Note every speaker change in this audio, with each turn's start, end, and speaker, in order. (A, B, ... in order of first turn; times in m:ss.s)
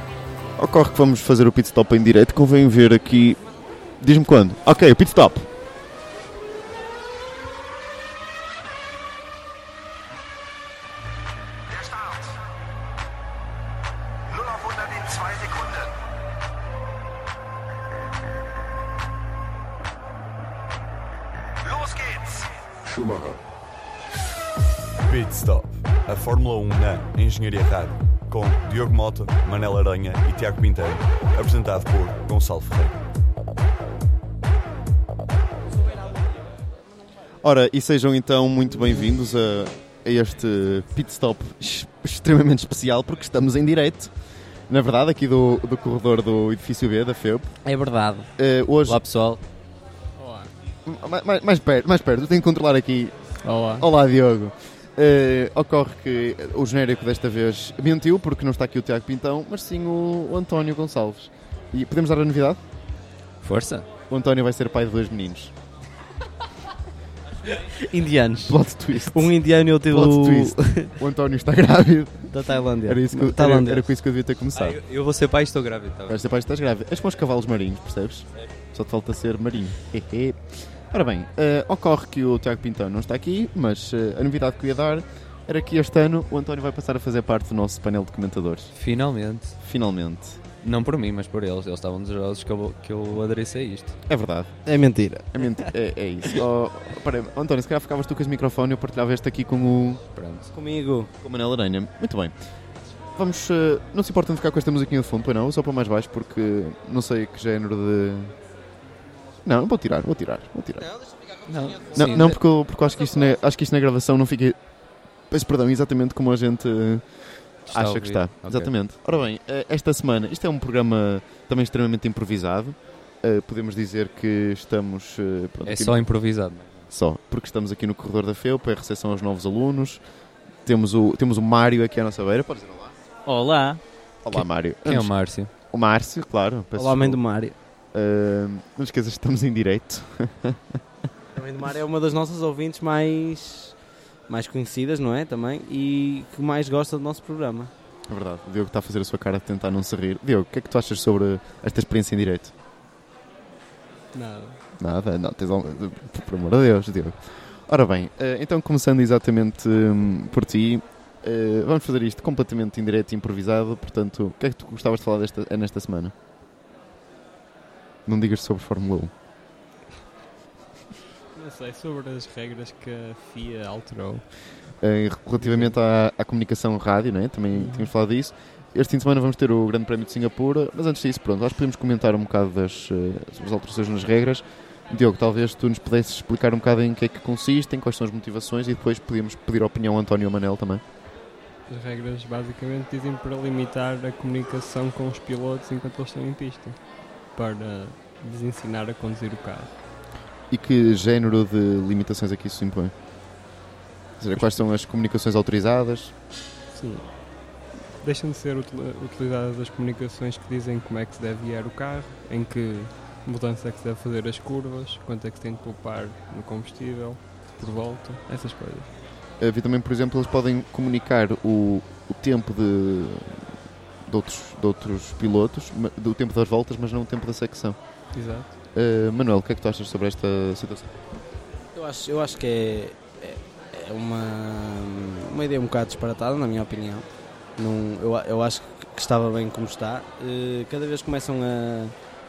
0:00.6-0:03.4 A
0:04.0-0:05.5 A
0:11.7-0:12.4 B
0:14.3-0:16.0 B
0:21.6-0:23.3 B
0:25.0-0:33.0 C
0:37.4-0:44.1 A
0:44.7-0:47.5 A
0:47.6-0:48.3 D
0:48.4-0:49.0 A
0:48.9-0:49.4 E
0:50.2-0:50.5 F
0:50.8-1:02.6 A
0:53.4-0:53.9 F
1:03.4-1:03.8 E
1:04.1-1:05.5 A
1:07.5-1:11.0 D
1:08.4-1:09.4 A
1:09.9-1:12.3 A
1:12.3-1:13.9 D
1:12.8-1:14.8 A
1:14.5-1:16.2 E
1:16.1-1:28.7 A
1:28.8-1:29.6 E
1:29.6-1:30.4 A
1:30.6-1:34.0 E
1:34.1-1:34.5 A
1:34.6-1:35.6 D
1:35.3-1:40.0 A
1:40.2-1:40.5 E
1:40.5-1:41.1 D
1:41.2-1:42.3 A
1:43.1-1:48.3 A
1:49.4-1:50.9 A
1:51.5-1:52.4 E
1:51.9-1:54.6 A
1:55.3-1:57.1 A
1:57.6-2:06.0 A
1:57.7-1:58.7 E
2:05.6-2:06.9 E
2:06.9-2:10.0 A
2:10.6-2:12.9 A
2:13.3-2:15.5 E
2:14.2-2:15.1 A
2:15.7-2:17.2 A
2:16.8-2:17.5 D
2:17.9-2:20.8 A
2:21.3-2:23.8 D
2:24.3-2:27.7 D
2:28.1-2:32.5 A
2:34.1-2:34.6 F
2:34.8-2:46.1 A
2:48.0-2:49.1 A
2:51.3-2:54.2 F
2:54.8-3:10.8 A
2:55.4-2:55.7 F
2:57.6-2:57.9 F
3:11.7-3:16.8 F
3:17.3-3:19.8 F
3:20.5-3:22.9 A
3:24.2-3:26.1 A
3:26.7-3:27.2 F
3:28.0-3:38.9 F
3:39.4-3:43.4 A
3:44.1-3:47.8 A
3:48.1-3:48.5 F
3:48.7-3:51.0 A
3:51.7-3:57.0 D
3:57.6-4:01.9 D